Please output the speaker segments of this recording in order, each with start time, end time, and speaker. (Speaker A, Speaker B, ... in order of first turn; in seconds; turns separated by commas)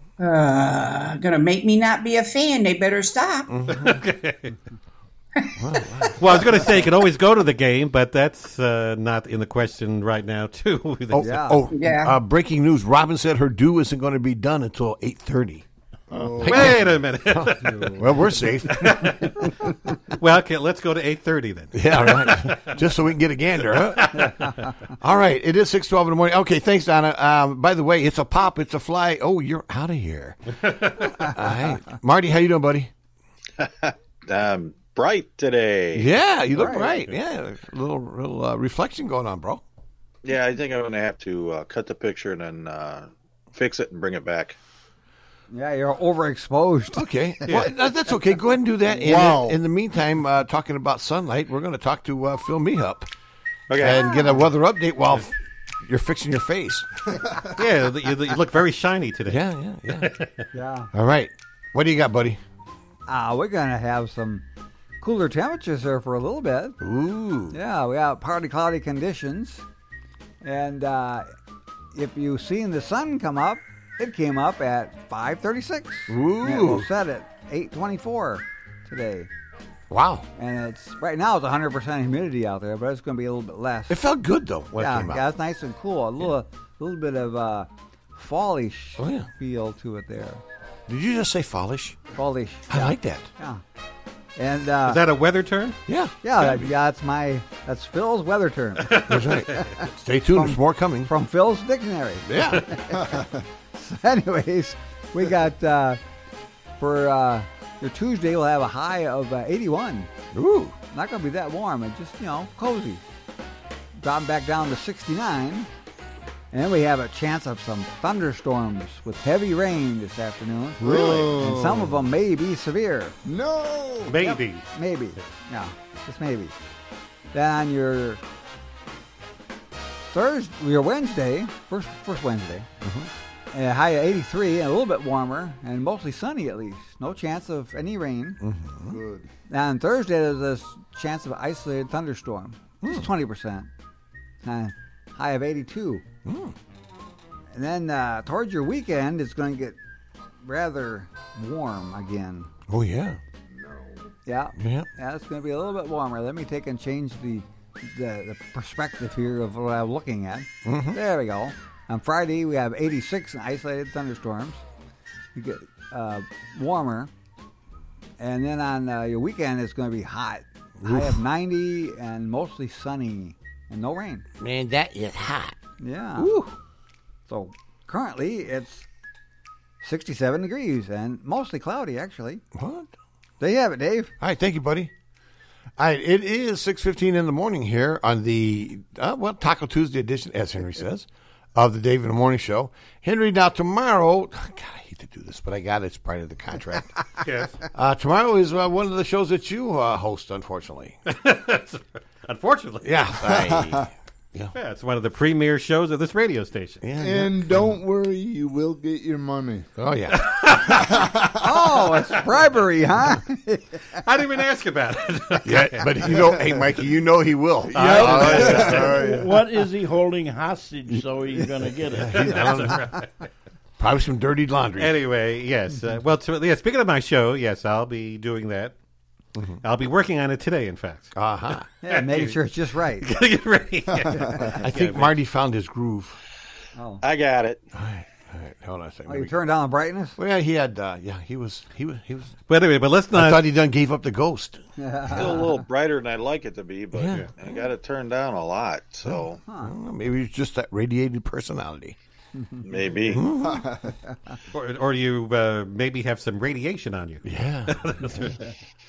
Speaker A: 0.2-3.5, Speaker B: 3.5-4.0, Speaker C: 3.7-4.5, Speaker B: 5.6-6.3, Speaker C: 6.2-11.3, Speaker B: 11.1-15.6, Speaker D: 11.2-11.6, Speaker A: 11.7-12.2, Speaker E: 16.1-16.8, Speaker B: 16.4-19.1, Speaker C: 16.4-17.9, Speaker C: 18.9-19.2, Speaker C: 20.1-22.7, Speaker B: 21.7-24.3, Speaker C: 23.8-24.4, Speaker B: 25.0-30.4, Speaker C: 30.6-31.3, Speaker B: 31.2-32.9, Speaker F: 33.6-36.1, Speaker B: 35.9-39.6, Speaker D: 36.5-37.0, Speaker F: 40.2-44.5, Speaker D: 45.5-47.0, Speaker B: 46.9-53.1, Speaker C: 47.4-47.7, Speaker E: 49.0-49.6, Speaker F: 53.7-54.0, Speaker B: 53.8-56.9, Speaker C: 57.6-59.4, Speaker B: 59.3-60.1, Speaker C: 60.0-60.3, Speaker D: 60.5-60.9, Speaker B: 60.9-62.4, Speaker D: 63.1-64.4, Speaker D: 65.0-66.8, Speaker B: 66.8-67.6, Speaker D: 67.5-69.6, Speaker D: 70.4-71.3, Speaker D: 71.9-79.3, Speaker B: 76.1-76.9, Speaker B: 79.9-80.2, Speaker D: 80.3-84.0, Speaker B: 83.9-85.2, Speaker D: 84.8-90.4, Speaker B: 89.0-89.3, Speaker B: 90.9-92.0, Speaker D: 92.1-93.6, Speaker B: 92.7-93.3, Speaker D: 94.3-95.0, Speaker C: 94.8-95.8, Speaker B: 95.9-96.7, Speaker D: 96.2-103.2, Speaker C: 98.8-99.5, Speaker B: 99.1-101.1, Speaker B: 102.2-102.6, Speaker E: 103.0-103.4, Speaker D: 103.7-106.0, Speaker D: 106.8-110.1, Speaker B: 110.3-110.8, Speaker D: 110.9-113.0, Speaker D: 114.0-115.7, Speaker D: 116.5-123.2, Speaker E: 120.8-122.1, Speaker E: 123.2-124.3, Speaker C: 124.1-124.7, Speaker D: 124.7-126.5, Speaker D: 127.3-128.2, Speaker D: 130.1-132.7, Speaker B: 132.8-133.1, Speaker D: 133.5-138.4, Speaker B: 138.4-139.0, Speaker E: 138.8-139.3, Speaker D: 139.5-143.7, Speaker B: 142.8-143.1, Speaker D: 144.4-146.0, Speaker B: 146.2-146.5, Speaker D: 147.5-149.8, Speaker D: 150.4-152.5, Speaker B: 152.7-153.2, Speaker E: 153.5-154.0, Speaker D: 154.2-164.6, Speaker B: 154.6-154.9, Speaker B: 160.6-161.0, Speaker D: 165.3-167.1, Speaker D: 168.2-174.2, Speaker B: 170.8-171.2, Speaker B: 174.4-175.6, Speaker D: 175.8-176.5, Speaker B: 176.2-176.4, Speaker D: 177.3-178.9, Speaker D: 179.8-182.4, Speaker B: 182.5-182.9, Speaker D: 183.4-184.1, Speaker B: 184.2-184.9, Speaker B: 185.8-196.9, Speaker C: 197.2-197.6, Speaker B: 197.7-201.0, Speaker C: 201.1-203.1, Speaker B: 202.8-204.5, Speaker E: 203.4-203.8, Speaker C: 204.5-206.8, Speaker B: 206.8-207.3, Speaker E: 207.0-209.7, Speaker B: 209.8-210.3, Speaker C: 210.1-211.1, Speaker E: 210.7-211.4, Speaker D: 211.4-213.8, Speaker C: 214.0-216.1, Speaker B: 215.4-219.0, Speaker E: 216.3-216.6, Speaker C: 217.7-219.0, Speaker E: 217.7-219.3, Speaker G: 218.8-222.3, Speaker B: 221.9-222.8, Speaker C: 222.1-223.1, Speaker B: 223.8-224.9, Speaker C: 224.8-228.7, Speaker C: 229.6-231.1, Speaker B: 231.1-231.6, Speaker D: 231.8-233.1, Speaker C: 231.9-232.4, Speaker C: 233.0-235.1, Speaker D: 234.1-234.6, Speaker B: 234.6-236.2, Speaker D: 236.8-237.0, Speaker F: 237.0-237.6, Speaker B: 237.7-239.3, Speaker D: 239.1-240.2, Speaker B: 240.2-242.3, Speaker C: 242.5-243.4, Speaker B: 243.1-244.6, Speaker D: 244.8-245.5, Speaker F: 245.1-249.4, Speaker B: 246.9-247.3, Speaker B: 249.0-251.9, Speaker D: 249.4-249.7, Speaker D: 252.4-252.6, Speaker F: 252.6-253.2, Speaker B: 253.1-253.6, Speaker E: 253.4-253.9, Speaker C: 254.5-258.4, Speaker B: 257.2-257.8